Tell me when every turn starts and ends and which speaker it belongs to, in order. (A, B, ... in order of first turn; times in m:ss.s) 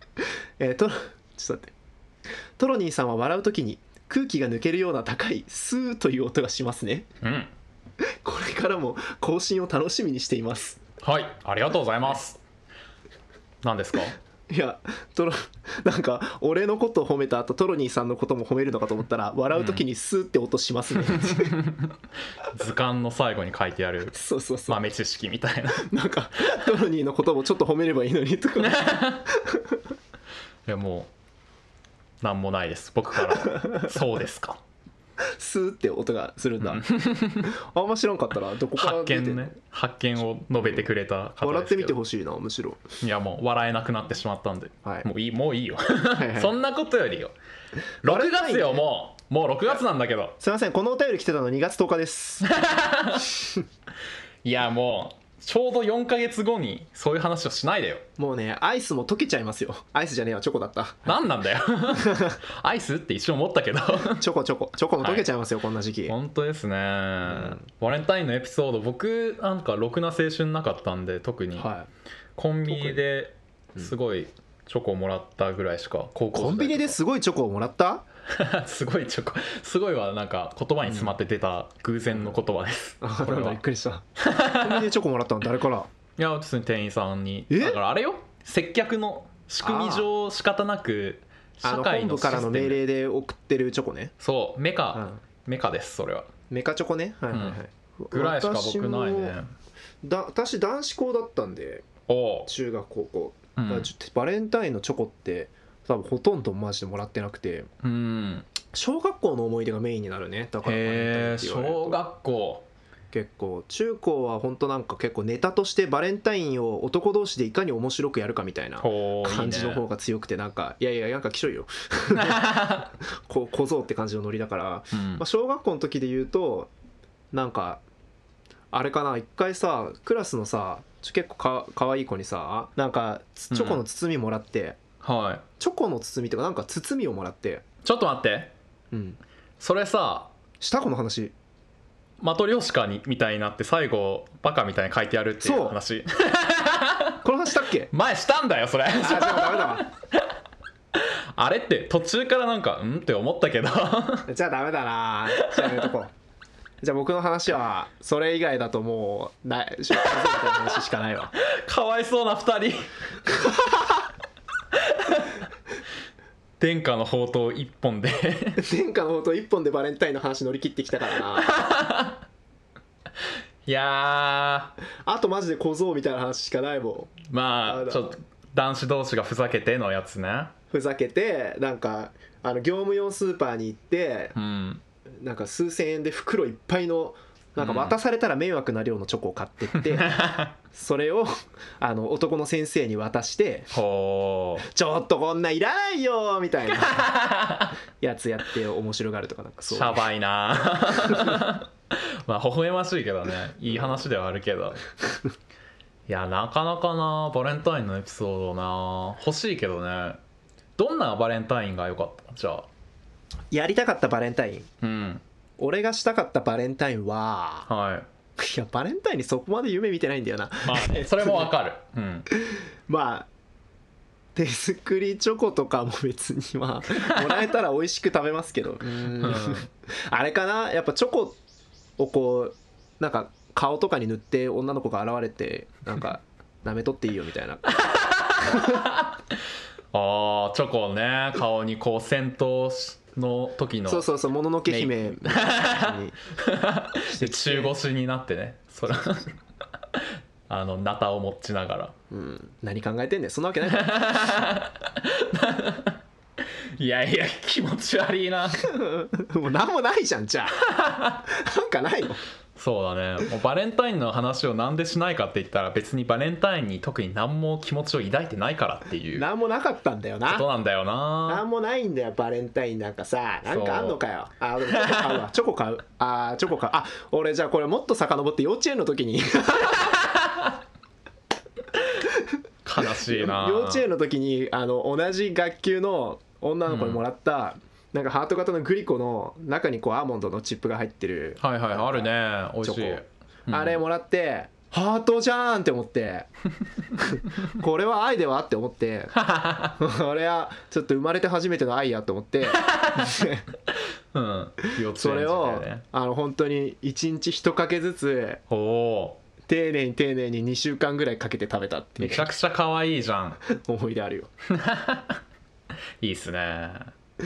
0:00.2-0:01.7 A
0:02.6-0:07.1 A
0:07.2-0:07.5 B
0:08.0-0:10.8 A
0:11.0-0:12.4 B
0:13.6-0:14.2 B
0:14.5-0:21.6 A
0:19.5-0:19.8 B
0:21.1-0:24.2 B
0:24.1-0:24.8 A
0:24.7-0:25.9 B
0:25.7-0:29.8 A
0:28.6-0:29.3 B
0:30.6-0:31.1 B
0:32.2-0:34.6 B
0:33.3-0:33.8 A
0:35.2-0:36.9 A
0:36.6-0:37.5 B
0:37.4-0:39.5 A
0:38.8-0:42.0 B
0:41.4-0:42.8 A
0:43.0-0:47.3 B
0:46.1-0:46.5 A
0:48.0-0:50.4 B
0:48.0-0:48.8 A
0:50.4-0:52.5 A
0:52.4-0:53.4 B
0:54.4-0:58.0 B
0:58.2-1:01.2 A
1:01.0-1:04.2 B
1:01.9-1:02.4 A
1:04.2-1:06.1 A
1:05.0-1:05.3 B
1:06.1-1:11.7 B
1:07.2-1:07.6 A
1:11.6-1:11.9 A
1:12.4-1:17.0 B
1:12.7-1:13.0 A
1:16.3-1:18.0 A
1:18.3-1:23.6 B
1:20.9-1:21.1 A
1:23.0-1:25.9 A
1:24.2-1:24.9 B
1:26.2-1:32.8 B
1:27.5-1:27.8 A
1:29.6-1:30.1 A
1:31.6-1:34.1 A
1:34.2-1:36.3 B
1:34.9-1:35.2 A
1:36.5-1:39.4 A
1:37.3-1:37.6 B
1:38.1-1:39.5 B
1:40.0-1:41.8 A
1:42.1-1:42.5 B
1:42.5-1:47.7 A
1:43.6-1:43.9 B
1:47.8-1:48.5 B
1:48.7-1:52.0 A
1:50.6-1:52.7 B
1:53.1-2:06.7 A
1:58.8-1:59.8 B
2:02.1-2:02.9 B
2:04.9-2:05.2 B
2:07.3-2:07.8 A
2:08.7-2:14.8 A
2:13.5-2:13.8 B
2:15.0-2:15.4 B
2:15.6-2:17.6 A
2:17.8-2:18.5 B
2:18.9-2:19.2 A
2:19.6-2:20.3 B
2:20.6-2:21.3 A
2:22.2-2:27.2 B
2:25.4-2:25.8 A
2:27.2-2:27.9 A
2:27.9-2:30.3 B
2:29.0-2:29.8 A
2:30.9-2:34.3 B
2:34.3-2:36.1 A
2:35.4-2:35.9 B
2:36.8-2:41.3 A
2:41.4-2:42.9 B
2:43.3-2:44.0 A
2:44.7-2:45.4 B
2:46.6-2:48.6 B
2:48.6-2:51.6 A
2:51.3-2:52.2 B
2:53.6-2:54.8 B
2:55.0-2:58.1 A
2:57.3-3:00.5 B
3:00.7-3:04.3 A
3:04.3-3:04.8 B
3:05.1-3:10.2 A
3:07.6-3:08.0 B
3:09.8-3:10.5 B
3:10.7-3:13.7 A
3:13.7-3:14.7 B
3:14.6-3:17.2 A
3:16.8-3:17.7 B
3:18.0-3:20.0 A
3:19.6-3:24.8 B
3:21.0-3:21.4 A
3:26.1-3:30.2 B
3:30.8-3:32.7 B
3:33.5-3:34.7 A
3:34.8-3:35.2 B
3:35.6-3:37.7 A
3:37.7-3:38.1 B
3:38.4-3:41.5 A
3:40.6-3:42.3 B
3:42.3-3:43.3 A
3:44.3-3:51.4 A
3:49.2-3:49.6 B
3:52.0-3:57.8 A
3:57.8-3:59.2 B
3:58.4-3:58.8 A
3:59.9-4:04.1 B
4:03.9-4:06.2 A
4:04.7-4:09.3 B
4:07.1-4:07.7 A
4:09.9-4:11.9 B
4:12.1-4:14.0 A
4:13.6-4:16.0 B
4:16.8-4:18.7 B
4:18.6-4:20.6 A
4:20.6-4:21.2 B
4:21.2-4:22.2 A
4:22.6-4:29.3 B
4:29.1-4:30.4 A
4:30.3-4:31.4 B
4:31.3-4:40.2 A
4:33.4-4:34.0 B
4:34.8-4:35.2 B
4:42.0-4:52.1 A
4:42.6-4:43.8 B
4:46.7-4:47.0 B
4:51.4-4:53.8 B
4:52.6-4:56.3 A
4:57.0-4:59.1 A
4:59.1-4:59.8 B
4:59.8-5:03.4 A
5:02.6-5:03.2 B
5:04.1-5:05.8 B
5:04.9-5:08.4 A
5:08.5-5:09.2 B
5:09.5-5:12.3 A
5:12.0-5:13.4 B
5:13.4-5:14.3 A
5:14.5-5:15.2 B
5:16.0-5:16.9 B